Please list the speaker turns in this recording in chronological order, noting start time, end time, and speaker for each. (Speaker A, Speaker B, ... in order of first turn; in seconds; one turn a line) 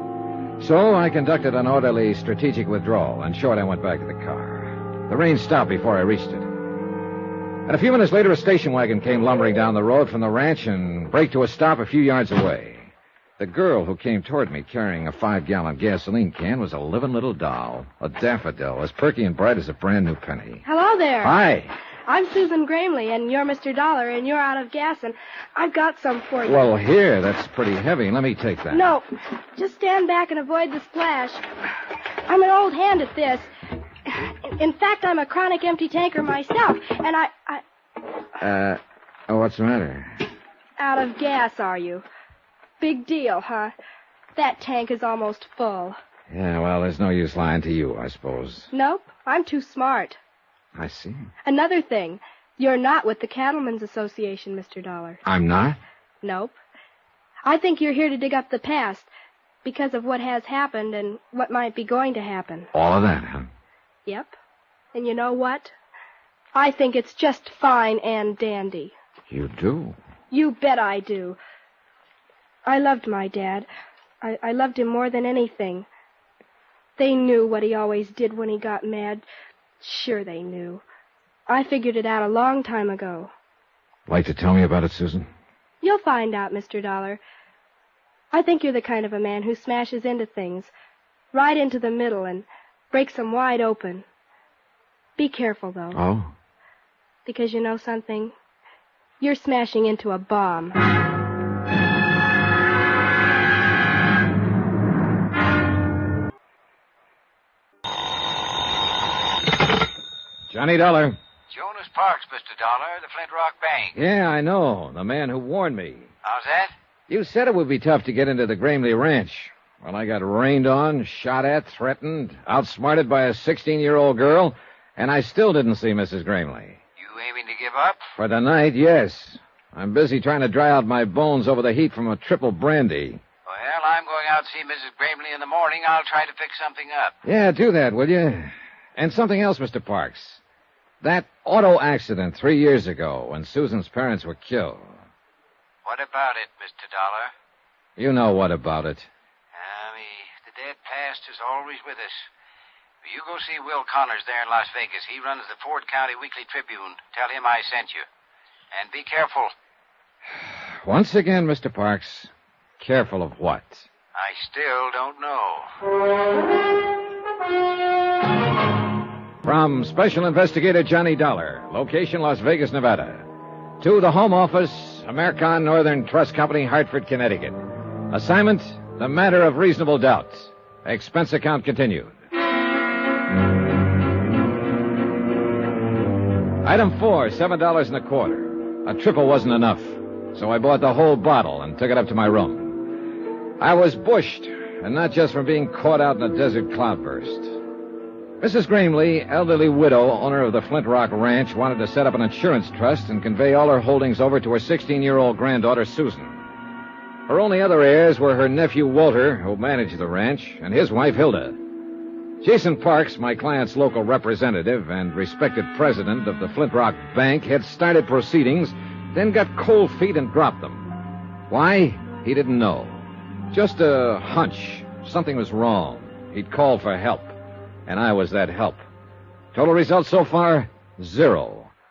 Speaker A: 0.6-6.5
Speaker A: 7.7-20.6
Speaker B: 20.6-21.3
Speaker A: 21.2-21.7
Speaker B: 22.1-26.7
Speaker A: 26.4-28.9
Speaker B: 28.7-29.0
Speaker B: 29.6-31.4
Speaker B: 32.3-33.5
Speaker B: 34.1-37.6
Speaker A: 38.4-40.2
Speaker B: 40.8-42.0
Speaker B: 42.8-43.7
Speaker B: 44.4-46.0
Speaker A: 46.3-48.7
Speaker B: 48.7-50.2
Speaker A: 50.7-51.3
Speaker B: 51.4-55.2
Speaker A: 55.2-55.8
Speaker B: 56.2-56.5
Speaker B: 57.4-59.1
Speaker B: 59.6-62.7
Speaker A: 62.7-63.5
Speaker B: 64.0-64.3
Speaker B: 64.9-65.7
Speaker B: 66.5-68.9
Speaker A: 69.3-70.0
Speaker B: 70.3-71.4
Speaker B: 72.7-73.7
Speaker B: 74.2-75.8
Speaker B: 77.0-79.2
Speaker B: 79.8-80.8
Speaker B: 81.5-83.3
Speaker A: 84.1-85.3
Speaker B: 85.8-87.2
Speaker B: 88.3-90.7
Speaker B: 91.3-94.0
Speaker B: 95.2-96.0
Speaker A: 95.9-96.3
Speaker B: 97.2-98.3
Speaker B: 99.2-100.8
Speaker A: 110.5-111.2
Speaker C: 111.5-114.0
Speaker A: 113.9-116.1
Speaker C: 116.2-116.7
Speaker A: 117.1-126.8
Speaker C: 127.0-128.0
Speaker A: 128.2-133.2
Speaker C: 133.5-137.2
Speaker A: 137.2-140.4
Speaker A: 141.0-145.0
Speaker C: 145.8-147.3
Speaker A: 148.0-149.1
Speaker C: 149.5-152.3
Speaker C: 153.0-158.1
Speaker C: 158.7-159.5
Speaker A: 160.4-163.9
Speaker C: 164.1-165.7
Speaker A: 169.4-173.3
Speaker A: 173.8-177.6
Speaker A: 178.1-182.1
Speaker A: 186.6-197.6
Speaker A: 198.4-206.4
Speaker A: 207.3-211.6
Speaker A: 212.4-228.8
Speaker A: 229.5-231.7